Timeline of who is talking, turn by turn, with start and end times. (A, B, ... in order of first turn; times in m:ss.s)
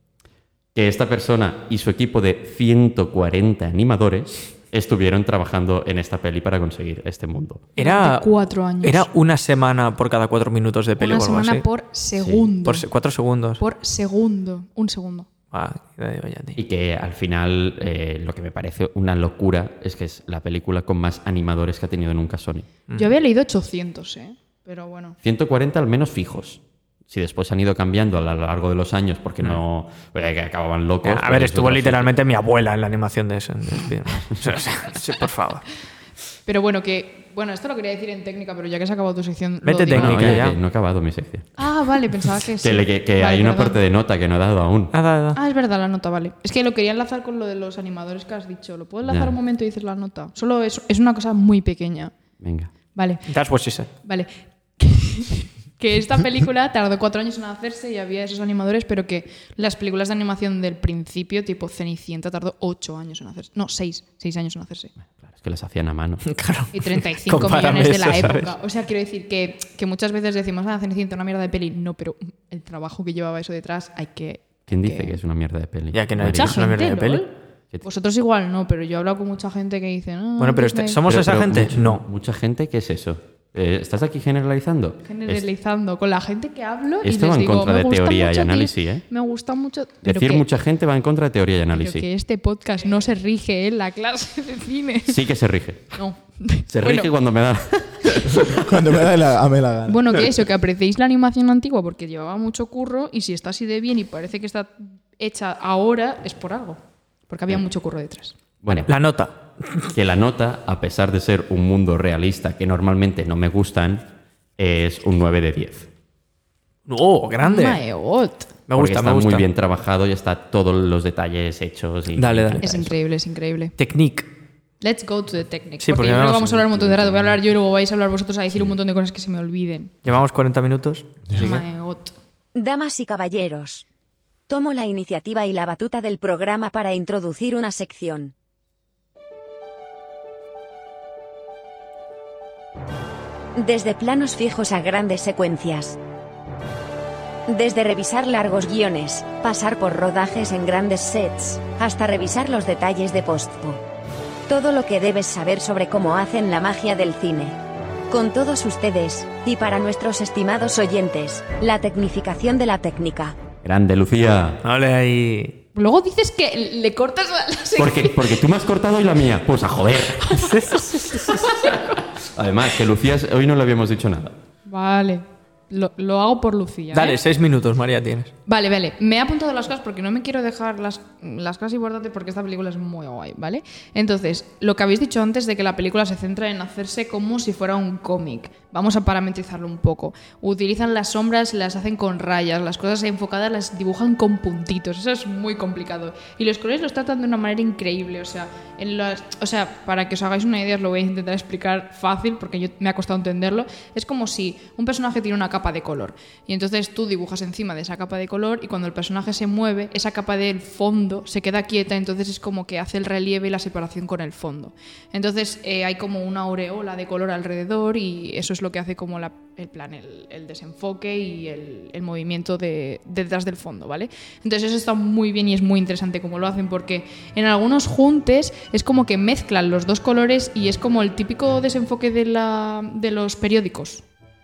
0:00.8-0:07.7 A
0:07.8-0:08.3 B
0:07.8-0:09.1 C
0:08.8-0:11.6 B
0:11.0-0:12.9 C
0:12.2-0:12.5 A
0:12.6-0:13.6 B
0:13.6-0:15.3 C
0:15.5-0:16.6 B
0:16.6-0:22.7 A
0:22.9-0:25.2 C
0:25.2-0:32.1 A
0:31.0-0:35.7 B
0:36.5-0:40.4 C
0:39.6-0:40.6 B
0:39.9-0:41.5 A
0:41.6-0:43.8 C
0:42.6-0:44.9 A
0:44.9-0:45.4 B
0:45.4-0:52.2 C
0:49.1-0:49.4 A
0:52.4-0:52.7 A
0:53.0-0:53.3 C
0:53.3-0:53.9 B
0:54.0-1:04.9 C
1:05.2-1:06.2 A
1:06.3-1:08.5 B
1:06.7-1:15.2 C
1:14.7-1:16.6 A
1:15.9-1:17.2 B
1:16.3-1:17.3 C
1:17.8-1:21.0 C
1:20.4-1:22.0 B
1:21.1-1:25.4 A
1:25.1-1:30.4 C
1:27.0-1:29.0 A
1:30.0-1:32.1 A
1:31.8-1:35.2 C
1:35.1-1:36.0 A
1:35.9-1:37.1 C
1:36.7-1:38.4 A
1:38.3-1:40.2 D
1:39.9-1:48.4 C
1:48.6-1:48.9 A
1:48.9-1:49.9 B
1:49.9-1:54.1 A
1:54.6-1:55.9 A
1:56.9-1:57.8 B
1:57.4-1:58.5 C
1:58.7-1:59.4 B
1:58.8-2:02.9 A
2:02.2-2:02.7 B
2:02.6-2:03.7 C
2:03.8-2:04.3 B
2:04.8-2:09.9 C
2:05.8-2:06.6 B
2:06.6-2:07.3 A
2:10.0-2:11.6 B
2:11.3-2:12.2 C
2:12.6-2:13.8 E
2:14.5-2:18.3 E
2:23.6-2:26.0 E
2:27.5-2:33.8 E
2:34.5-2:37.6 E
2:38.1-2:43.4 E
2:43.6-2:44.6 A
2:44.6-2:45.6 B
2:45.8-2:48.4 C
2:47.8-2:50.4 A
2:50.3-2:51.9 C
2:50.4-2:51.4 B
2:52.2-2:54.4 A
2:54.7-2:57.2 C
2:56.9-2:58.3 B
2:58.5-3:54.0 C